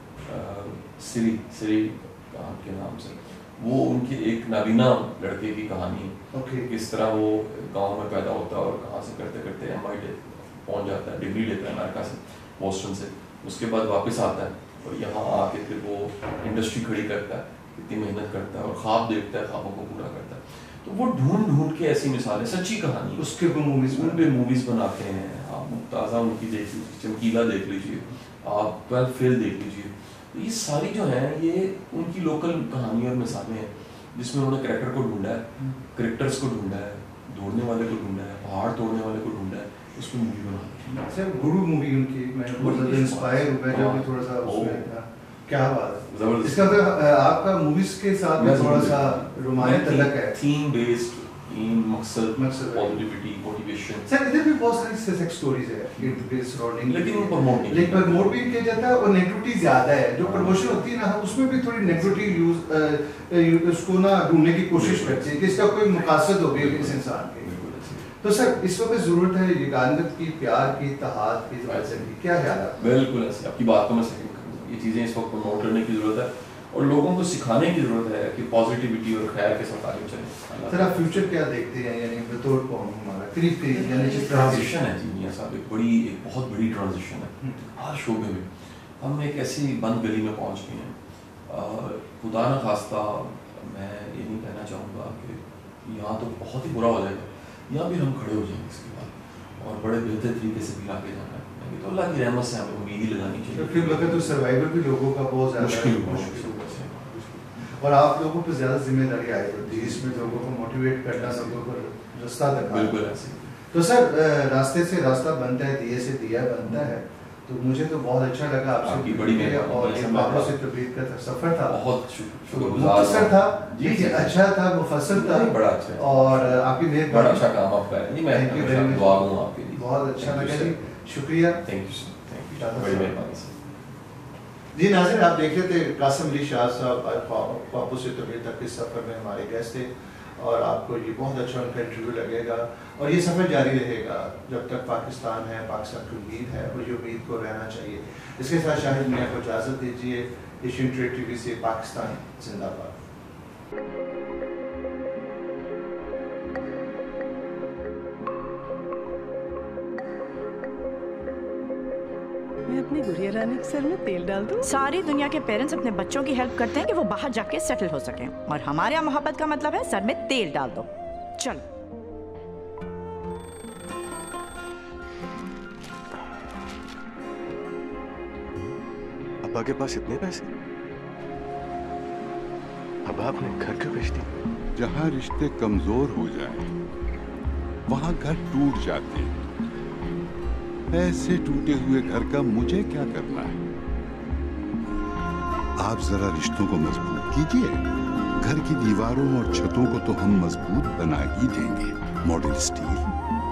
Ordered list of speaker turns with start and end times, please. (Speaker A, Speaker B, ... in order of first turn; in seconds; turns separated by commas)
Speaker A: 0.2-23.3, Speaker B: 6.3-6.7, Speaker B: 23.2-24.3, Speaker A: 23.9-41.1, Speaker B: 41.0-50.4, Speaker A: 42.5-44.9, Speaker A: 46.0-47.0, Speaker A: 48.4-54.1, Speaker B: 52.3-53.0, Speaker B: 54.0-67.5, Speaker A: 56.0-56.2, Speaker A: 56.8-58.6, Speaker A: 60.2-60.9, Speaker A: 61.5-62.4, Speaker A: 64.7-68.1, Speaker B: 68.2-72.8, Speaker A: 71.6-72.1, Speaker A: 72.7-81.3, Speaker B: 80.7-84.8, Speaker A: 83.7-91.0, Speaker A: 91.5-104.4, Speaker B: 103.5-106.8, Speaker A: 105.5-107.7, Speaker B: 107.6-113.0, Speaker A: 109.6-110.5, Speaker A: 111.1-111.6, Speaker A: 112.7-113.5, Speaker B: 113.7-121.8, Speaker A: 116.6-116.9, Speaker A: 118.8-120.5, Speaker A: 121.7-124.4, Speaker B: 122.5-127.5, Speaker A: 125.1-130.8, Speaker B: 128.3-131.6, Speaker A: 131.6-133.6, Speaker B: 132.6-133.2, Speaker B: 134.7-152.9, Speaker C: 162.7-164.8, Speaker D: 164.6-171.6, Speaker E: 179.4-180.5, Speaker E: 183.1-184.3, Speaker F: 184.8-186.7, Speaker F: 187.9-189.3, Speaker F: 190.9-193.6, Speaker F: 195.8-197.8, Speaker F: 198.4-203.1